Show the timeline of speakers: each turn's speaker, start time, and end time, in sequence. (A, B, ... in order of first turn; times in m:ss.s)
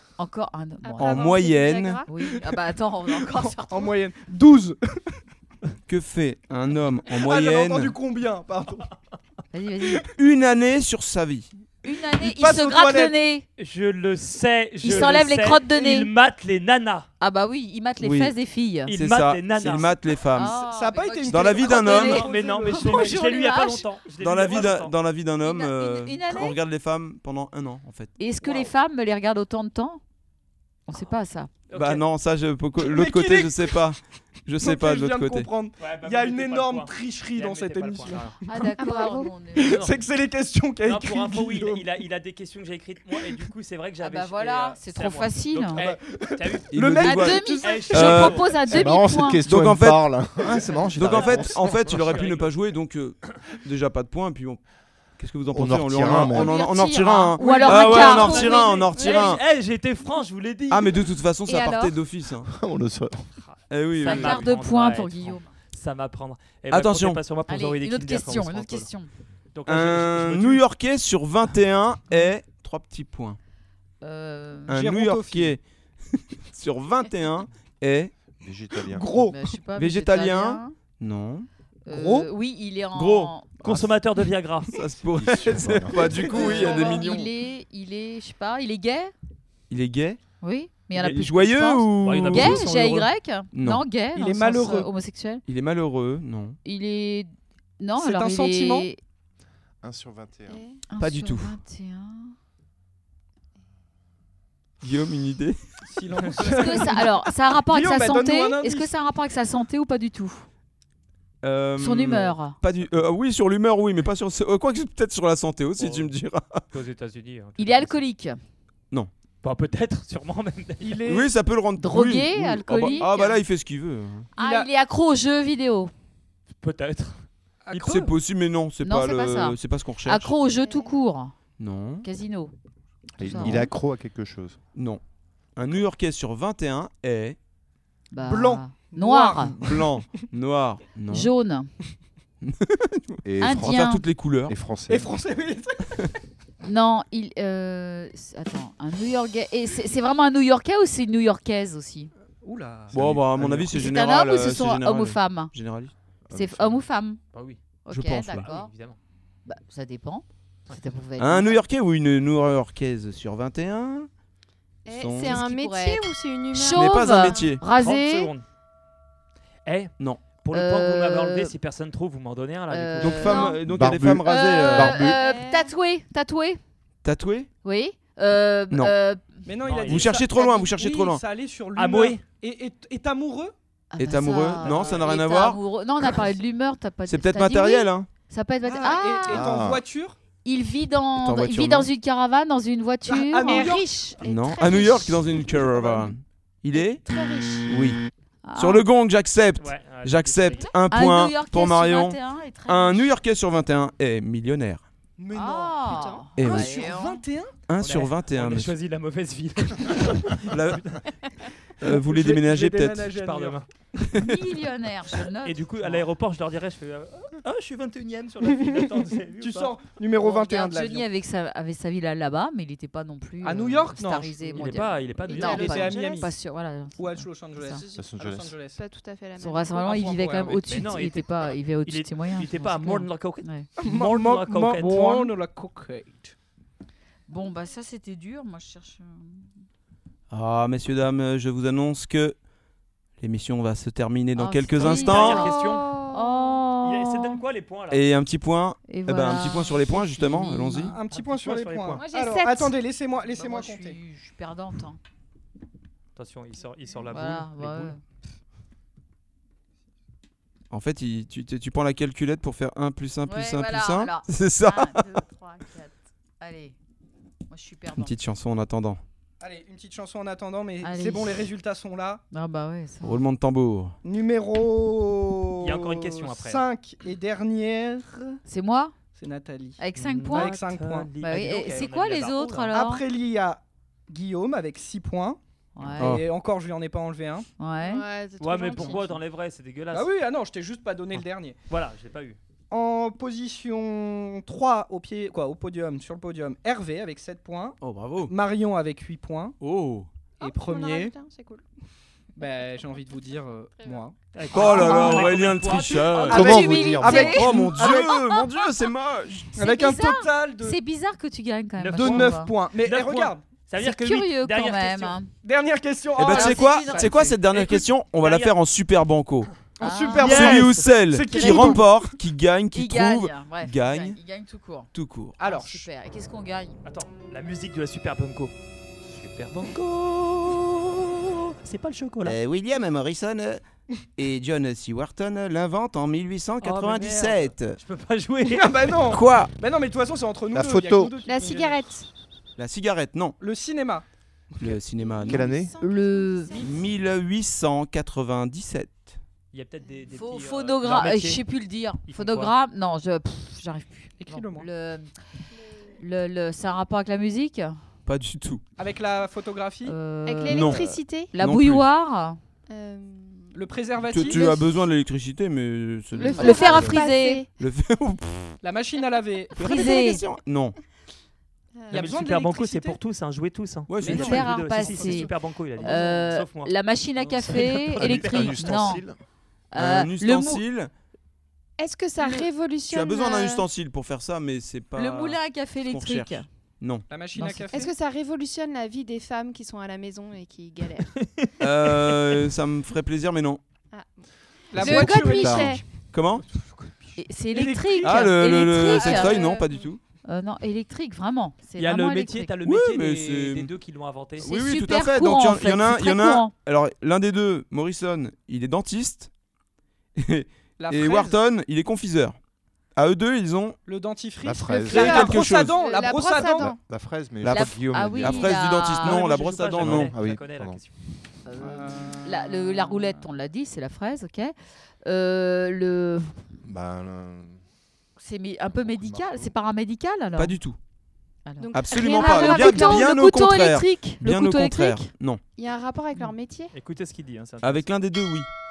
0:00.2-0:01.3 A
0:00.8-0:02.1 B
0:01.0-0:02.0 C
0:02.1-0:03.9 A
0:03.2-0:05.2 D
0:05.9-0:08.0 C
0:07.1-0:08.9 D
0:09.5-0:10.0 A
0:10.2-0:11.5 C
0:11.8-0:13.4 A
0:12.2-0:13.2 D
0:13.6-0:17.1 E
0:14.8-0:16.1 A
0:17.2-0:18.9 A
0:18.0-0:18.3 C
0:18.9-0:19.9 E
0:18.9-0:20.6 C
0:20.3-0:23.8 A
0:20.7-0:23.5 D
0:21.3-0:22.3 C
0:21.9-0:24.9 E
0:24.2-0:28.1 C
0:25.4-0:26.6 A
0:28.2-0:30.0 A
0:30.9-0:31.5 A
0:31.7-0:32.0 E
0:31.7-0:35.5 C
0:32.8-0:33.8 D
0:34.6-0:38.8 D
0:35.8-0:38.4 E
0:38.5-0:39.8 A
0:38.8-0:39.3 B
0:39.5-0:41.9 D
0:39.6-0:40.0 E
0:40.8-0:47.0 E
0:44.0-0:45.8 A
0:45.8-0:48.8 D
0:46.7-0:48.4 C
0:47.0-0:49.4 A
0:47.6-0:48.6 E
0:48.6-0:52.1 F
0:49.4-0:50.3 C
0:50.9-0:54.6 C
0:51.1-0:52.6 E
0:55.2-0:59.4 C
0:55.5-0:56.6 F
0:56.3-0:58.6 A
0:57.4-0:58.4 D
0:57.6-1:01.0 E
0:57.8-0:59.4 B
1:00.7-1:02.5 C
1:01.5-1:01.9 B
1:02.4-1:03.3 F
1:03.4-1:08.9 E
1:03.7-1:04.5 C
1:04.0-1:05.4 A
1:06.7-1:07.2 C
1:07.5-1:09.1 A
1:09.5-1:10.6 E
1:09.6-1:13.4 C
1:14.0-1:14.7 A
1:14.7-1:18.1 C
1:14.7-1:15.6 D
1:18.4-1:19.3 F
1:18.9-1:19.4 D
1:19.2-1:20.7 A
1:19.8-1:21.5 C
1:21.9-1:23.5 A
1:21.9-1:22.3 D
1:22.9-1:23.9 C
1:23.6-1:24.7 E
1:24.7-1:27.3 C
1:25.1-1:27.0 F
1:26.3-1:29.1 A
1:29.7-1:30.2 C
1:30.4-1:35.4 A
1:30.9-1:32.7 C
1:32.0-1:33.1 E
1:33.5-1:33.8 C
1:34.1-1:34.9 D
1:35.4-1:36.6 C
1:36.6-1:39.0 A
1:38.0-1:38.9 D
1:39.8-1:40.6 F
1:40.5-1:40.8 B
1:40.9-1:42.3 A
1:41.0-1:41.5 C
1:44.8-1:45.6 C
1:45.8-1:48.9 D
1:46.4-1:50.5 A
1:51.4-1:56.6 C
1:51.8-1:52.6 A
1:55.8-1:56.1 E
1:56.7-1:58.0 E
1:57.6-1:58.4 A
1:59.4-2:01.0 E
2:00.8-2:01.3 D
2:01.0-2:04.3 C
2:01.8-2:03.4 A
2:04.4-2:04.7 D
2:04.4-2:05.9 A
2:06.6-2:07.9 E
2:07.6-2:08.1 D
2:07.8-2:10.3 C
2:08.8-2:11.3 A
2:10.6-2:11.0 B
2:11.6-2:12.0 C
2:12.0-2:12.5 A
2:13.2-2:13.7 A
2:13.2-2:14.6 F
2:13.4-2:13.7 C
2:14.7-2:15.0 C
2:15.6-2:17.4 C
2:18.1-2:19.6 A
2:18.2-2:20.2 D
2:19.6-2:21.3 C
2:21.1-2:21.7 A
2:22.4-2:24.5 C
2:23.2-2:25.1 F
2:23.4-2:24.0 A
2:24.9-2:26.1 D
2:26.6-2:32.1 A
2:32.4-2:33.1 D
2:32.9-2:33.7 F
2:32.9-2:35.9 C
2:33.7-2:35.5 A
2:36.2-2:36.8 F
2:36.3-2:37.2 A
2:37.3-2:37.6 E
2:37.8-2:38.7 A
2:37.9-2:38.5 C
2:38.3-2:39.0 E
2:39.4-2:41.6 A
2:41.2-2:44.1 C
2:44.8-2:45.4 C
2:44.8-2:47.5 B
2:45.2-2:48.3 A
2:46.5-2:47.6 C
2:47.8-2:48.4 E
2:49.6-2:53.5 E
2:50.5-2:51.5 A
2:52.7-2:53.6 A
2:53.0-2:55.1 C
2:53.3-2:53.6 B
2:53.6-2:55.1 F
2:54.2-2:56.6 A
2:54.9-2:55.7 B
2:57.0-2:57.5 C
2:57.6-2:59.5 A
2:59.4-3:03.5 D
2:59.6-3:00.1 E
2:59.8-3:01.2 C
3:01.7-3:02.2 E
3:03.9-3:09.4 A
3:04.0-3:05.6 C
3:04.6-3:05.0 E
3:07.1-3:08.1 C
3:08.6-3:10.2 D
3:09.3-3:09.8 F
3:10.4-3:13.7 A
3:11.2-3:11.9 C
3:13.1-3:14.0 D
3:13.4-3:16.1 B
3:14.2-3:17.0 C
3:16.7-3:17.7 B
3:17.7-3:18.0 C
3:18.4-3:18.8 A
3:18.6-3:24.8 C
3:19.6-3:20.7 E
3:20.9-3:23.1 A
3:25.2-3:28.1 D
3:25.3-3:27.2 A
3:25.8-3:26.3 B
3:26.4-3:26.7 C
3:27.7-3:28.7 C
3:27.8-3:31.0 E
3:30.5-3:30.8 C
3:31.8-3:33.2 C
3:31.8-3:33.6 D
3:33.2-3:33.7 E
3:34.0-3:34.4 C
3:34.2-3:36.0 A
3:35.4-3:39.8 E
3:39.4-3:41.1 D
3:40.2-3:47.8 A
3:43.4-3:44.7 D
3:44.6-3:46.3 E
3:45.3-3:46.3 D
3:47.0-3:48.8 D
3:47.7-3:48.1 B
3:47.9-3:48.6 F
3:48.7-3:50.2 B
3:49.4-3:53.7 A
3:49.9-3:55.3 E
3:53.8-3:56.3 D
3:57.3-3:59.5 A
4:00.3-4:02.4 C
4:03.2-4:05.4 C
4:04.4-4:07.4 A
4:04.8-4:05.9 E
4:04.8-4:06.6 B
4:06.8-4:08.0 E
4:07.9-4:11.0 C
4:08.9-4:11.0 A
4:10.7-4:14.0 D
4:11.1-4:12.0 E
4:12.0-4:12.7 B
4:12.2-4:12.7 A
4:13.3-4:15.0 A
4:16.2-4:17.9 E
4:17.1-4:18.0 A
4:20.7-4:25.0 C
4:23.2-4:26.8 A
4:27.5-4:28.1 A
4:27.9-4:29.0 C
4:29.4-4:32.2 D
4:30.8-4:31.5 A
4:32.3-4:33.2 A
4:33.0-4:33.9 C
4:34.0-4:38.4 D
4:35.6-4:36.6 E
4:38.4-4:38.9 A
4:39.2-4:41.1 D
4:39.8-4:40.6 A
4:39.9-4:42.7 E
4:41.2-4:43.0 A
4:42.7-4:45.4 D
4:45.8-4:46.2 A
4:46.0-4:47.5 D
4:46.0-4:46.2 C
4:47.6-4:48.0 A
4:47.8-4:49.2 B
4:48.4-4:50.1 E
4:49.9-4:51.6 D
4:51.7-4:52.4 E
4:52.7-4:59.6 D
4:57.8-4:58.3 C
4:59.6-5:00.1 C
5:00.4-5:01.6 B
5:00.4-5:01.1 D
5:02.4-5:05.1 D
5:02.4-5:02.8 B
5:04.3-5:06.4 E
5:04.5-5:06.5 C
5:04.6-5:05.3 A
5:06.3-5:08.3 D
5:06.3-5:07.7 F
5:06.3-5:08.4 A
5:07.1-5:09.5 C
5:09.5-5:10.8 D
5:09.6-5:12.5 A
5:11.8-5:15.2 E
5:11.9-5:13.4 D
5:13.8-5:15.3 A
5:15.4-5:17.4 D
5:16.2-5:19.5 C
5:16.2-5:17.3 A
5:17.5-5:18.5 E
5:19.8-5:21.9 D
5:19.8-5:21.8 A
5:20.2-5:20.6 E
5:20.2-5:24.2 C
5:22.7-5:24.9 A
5:24.9-5:25.4 C
5:25.4-5:25.8 D
5:25.4-5:26.8 A
5:26.8-5:28.5 E
5:29.2-5:29.5 F
5:29.5-5:30.9 E
5:31.6-5:32.4 E
5:32.2-5:33.6 C
5:34.2-5:37.8 C
5:36.6-5:37.4 D
5:37.7-5:39.0 E
5:38.4-5:41.8 D
5:39.1-5:39.5 C
5:40.5-5:41.2 F
5:41.2-5:42.1 B
5:42.6-5:43.4 C
5:43.4-5:44.0 D
5:44.6-5:45.5 C
5:44.8-5:46.9 B
5:45.2-5:45.8 F
5:45.8-5:46.6 A
5:46.6-5:49.2 C
5:49.5-5:51.4 E
5:50.1-5:55.1 A
5:52.0-5:52.5 E
5:54.2-5:54.7 D
5:55.8-5:57.8 A
5:58.0-5:58.6 C
5:58.8-6:00.0 D
5:59.8-6:02.4 A
6:00.2-6:01.3 B
6:00.5-6:01.8 C
6:02.7-6:04.8 B
6:03.5-6:04.5 D
6:04.1-6:07.0 C
6:06.1-6:07.5 B
6:06.3-6:07.4 A
6:07.6-6:08.6 C
6:08.6-6:09.5 D
6:09.6-6:10.7 C
6:09.6-6:10.2 A
6:11.8-6:12.2 B
6:11.9-6:13.0 D
6:11.9-6:16.7 E
6:13.9-6:14.6 C
6:14.0-6:19.0 A
6:14.7-6:15.3 D
6:17.2-6:17.7 D
6:17.5-6:19.0 E
6:17.9-6:19.2 F
6:19.7-6:20.6 A
6:19.7-6:20.9 C
6:21.8-6:23.6 B
6:22.9-6:27.0 C
6:24.9-6:26.4 A
6:27.1-6:27.9 D
6:27.4-6:27.8 A
6:27.7-6:31.1 B
6:31.1-6:32.4 E
6:31.6-6:33.6 C
6:33.9-6:35.8 B
6:34.7-6:35.8 D
6:34.8-6:35.8 F
6:36.1-6:36.4 C
6:36.4-6:37.2 E
6:37.2-6:39.6 A
6:37.5-6:38.3 D
6:38.0-6:40.0 C
6:39.1-6:39.5 D
6:40.2-6:42.5 A
6:41.8-6:44.5 E
6:42.6-6:43.7 C
6:44.4-6:49.3 C
6:44.4-6:46.5 A
6:50.2-6:52.4 C
6:50.8-6:51.4 D
6:52.9-6:53.8 C
6:53.8-6:56.7 D
6:54.4-6:55.3 F
6:54.8-6:55.7 C
6:54.9-6:56.8 B
6:56.4-6:58.6 F
6:57.4-7:00.1 C
6:57.5-6:59.2 A
6:58.8-7:00.9 E
6:59.8-7:00.8 F
7:01.4-7:06.4 A
7:01.6-7:03.0 D
7:06.6-7:07.6 F
7:08.2-7:10.6 A
7:08.7-7:09.5 F
7:10.4-7:10.8 C
7:11.4-7:15.1 A
7:11.6-7:13.1 B
7:11.7-7:15.4 C
7:15.6-7:16.7 B
7:16.7-7:17.9 E
7:17.6-7:18.5 C